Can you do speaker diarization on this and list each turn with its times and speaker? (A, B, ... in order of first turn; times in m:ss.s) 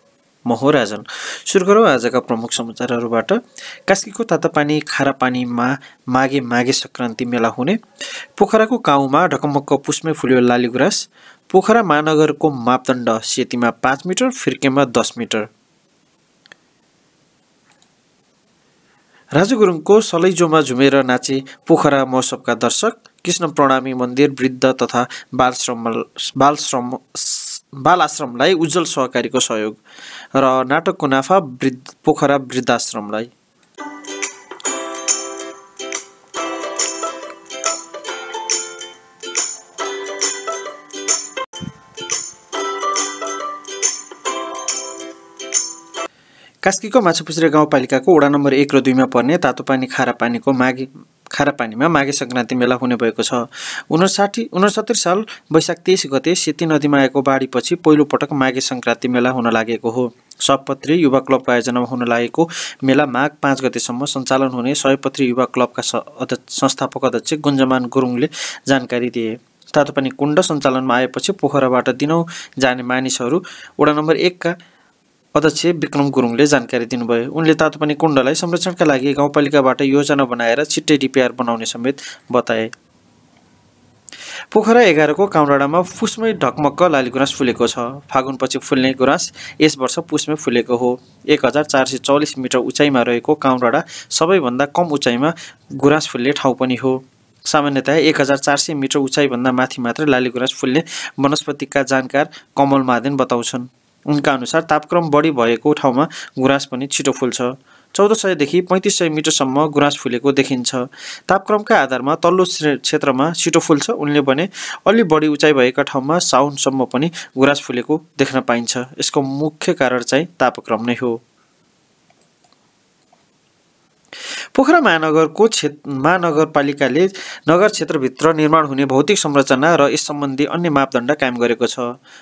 0:00.5-0:07.8 A
0:08.4-0:15.5 A
0:19.4-0:29.8 A
0:30.4-0:33.3 A
0:46.6-1:14.6 A
1:15.4-1:22.7 A
1:24.5-2:01.2 A
2:04.5-2:11.9 A